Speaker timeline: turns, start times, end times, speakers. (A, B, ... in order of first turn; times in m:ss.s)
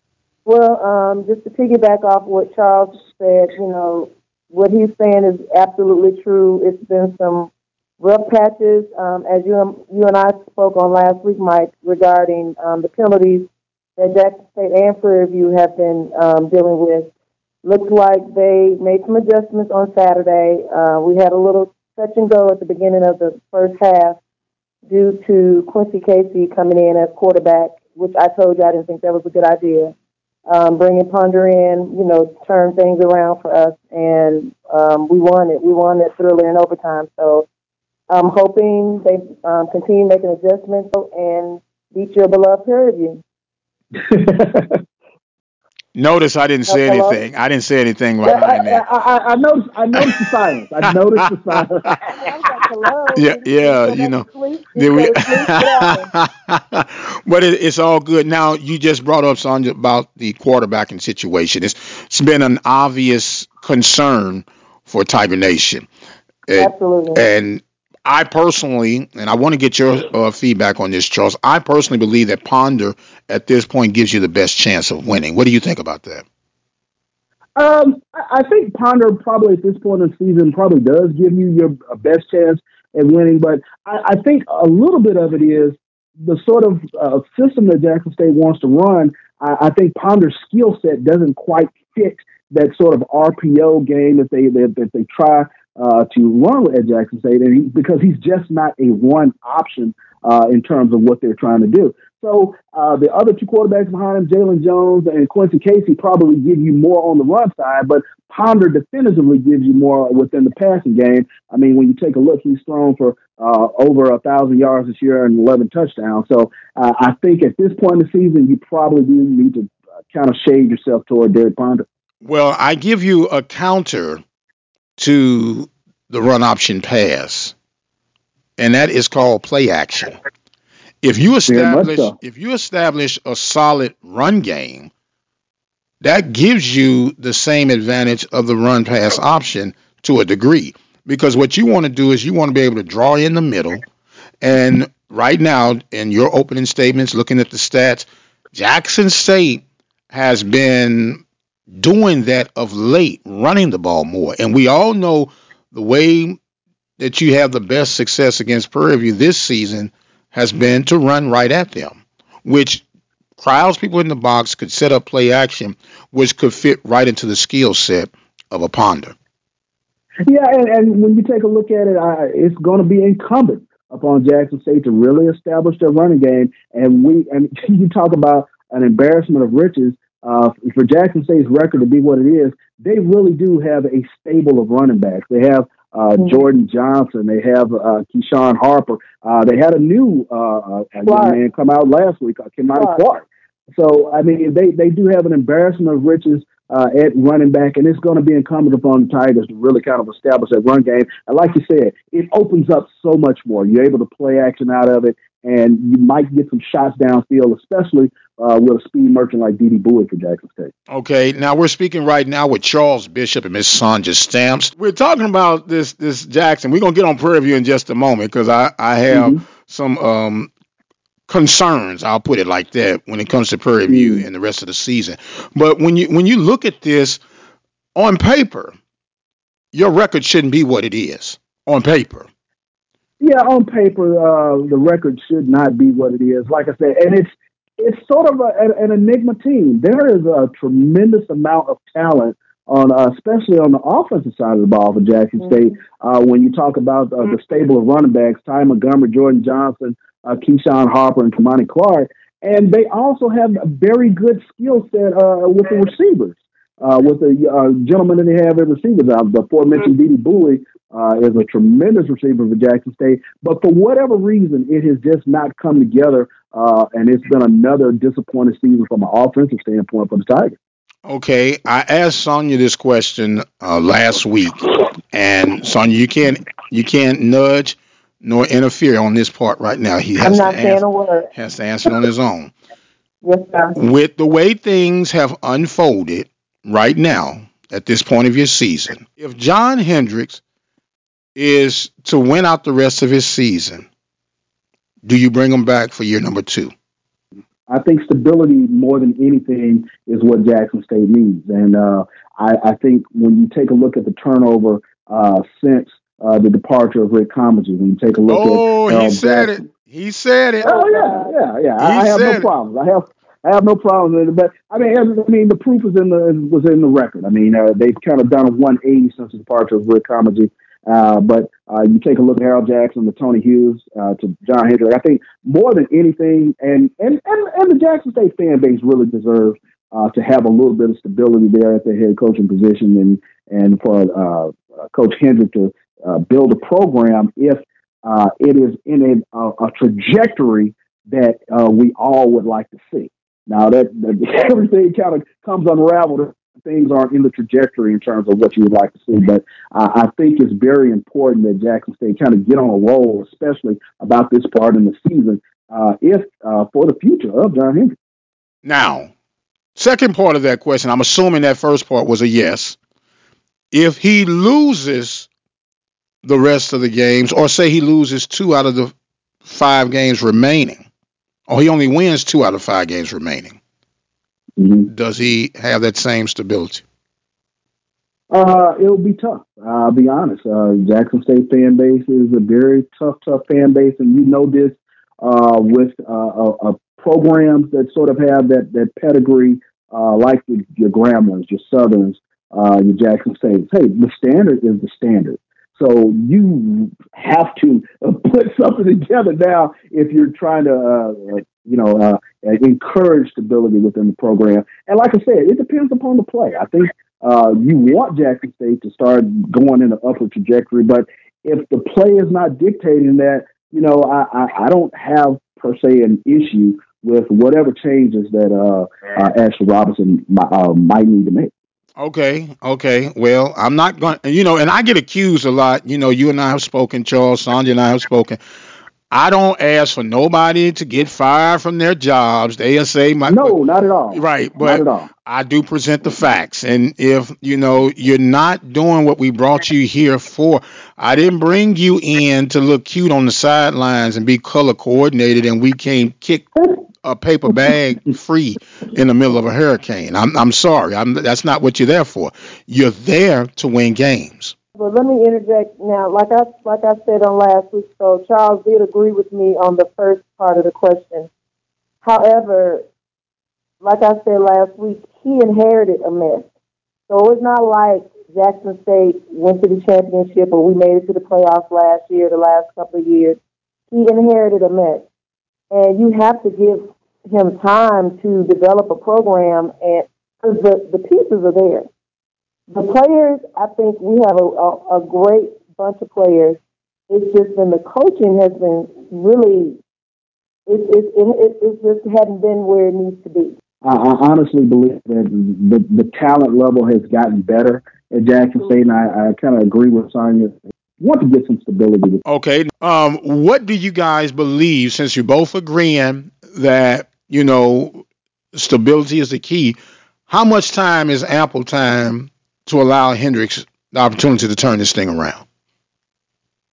0:00.5-0:17.1 A
0:17.6-0:24.2 A
0:24.9-0:29.9 A
0:30.5-0:37.5 A
0:38.1-0:43.2 A
0:44.0-0:44.8 B
0:46.0-0:48.8 C
0:46.7-0:47.2 A
0:48.2-0:52.0 B
0:50.9-0:51.3 C
0:52.2-0:56.1 A
0:53.2-0:54.2 C
0:54.8-1:05.9 C
1:06.5-1:16.2 C
1:06.5-1:07.2 A
1:17.6-2:01.9 B
2:02.2-2:04.2 C
2:05.0-2:07.5 C
2:08.6-2:10.2 C
2:11.0-2:14.9 C
2:11.5-2:12.1 B
2:16.0-2:23.8 C
2:24.4-2:31.2 C
2:31.7-2:36.4 C
2:37.0-2:42.8 C
2:43.4-2:49.2 C
2:50.3-3:30.7 B
3:11.0-3:11.4 A
3:12.8-3:13.0 A
3:30.9-3:40.5 C
3:39.1-3:39.4 B
3:41.3-3:47.2 C
3:43.9-3:44.3 B
3:48.0-3:48.7 C
3:49.7-3:52.3 C
3:53.2-4:30.6 B
4:31.1-4:40.8 C
4:40.2-4:41.3 A
4:41.3-4:42.5 C
4:43.2-4:43.8 A
4:43.8-4:50.4 C
4:51.4-4:53.9 C
4:55.0-4:56.7 C
4:57.7-5:09.6 B
5:08.3-5:10.8 C
5:10.6-5:58.0 B
5:10.6-5:11.3 A
5:11.8-5:12.5 C
5:58.6-5:59.1 C
5:59.8-6:02.8 C
6:03.7-6:05.3 C
6:06.2-6:08.9 C
6:09.5-6:10.9 C
6:11.5-6:13.6 C
6:14.6-6:14.9 B
6:14.9-6:16.8 C
6:18.3-7:01.5 B
7:02.0-7:08.4 C
7:09.1-7:13.6 C
7:13.3-7:15.1 B
7:14.1-7:26.5 C
7:27.0-7:34.6 C
7:34.8-7:41.3 A
7:42.0-7:42.8 A
7:43.8-7:46.5 A
7:47.1-7:53.4 A
7:53.9-7:55.1 A
7:55.7-8:01.9 A
8:02.7-8:09.8 A
8:10.7-8:13.6 A
8:13.8-8:22.2 B
8:22.3-8:29.8 C
8:30.3-8:35.4 C